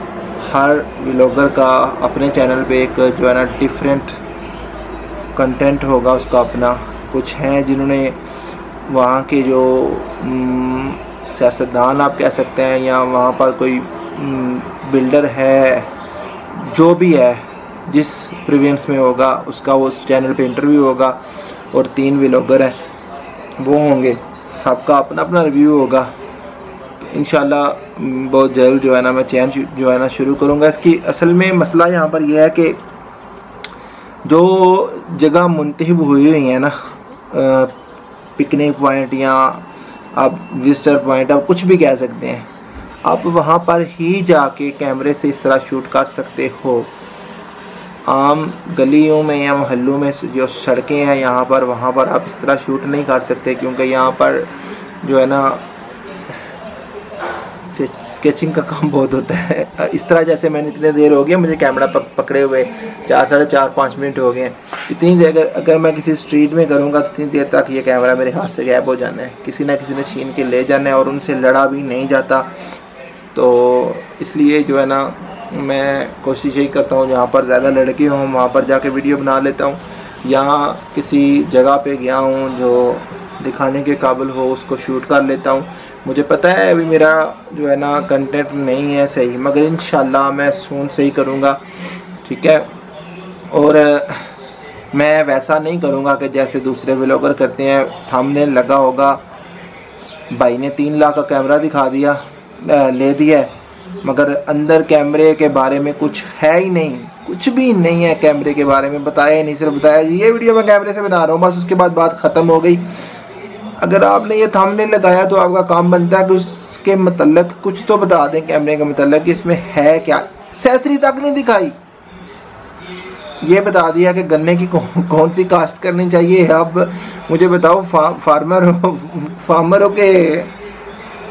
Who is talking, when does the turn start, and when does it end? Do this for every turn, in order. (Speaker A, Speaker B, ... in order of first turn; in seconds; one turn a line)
Speaker A: 0.4-4.2
Speaker A: 5.3-8.2
Speaker A: 8.9-15.9
Speaker A: 16.5-21.2
Speaker A: 21.7-22.8
Speaker A: 23.6-26.1
Speaker A: 27.1-32.8
Speaker A: 34.2-36.7
Speaker A: 37.3-37.7
Speaker A: 38.4-42.5
Speaker A: 43.0-46.9
Speaker A: 48.0-55.7
Speaker A: 57.6-72.5
Speaker A: 73.3-91.6
Speaker A: 92.2-92.7
Speaker A: 93.5-94.3
Speaker A: 94.9-99.2
Speaker A: 100.3-103.5
Speaker A: 104.0-112.8
Speaker A: 113.8-121.8
Speaker A: 123.4-130.5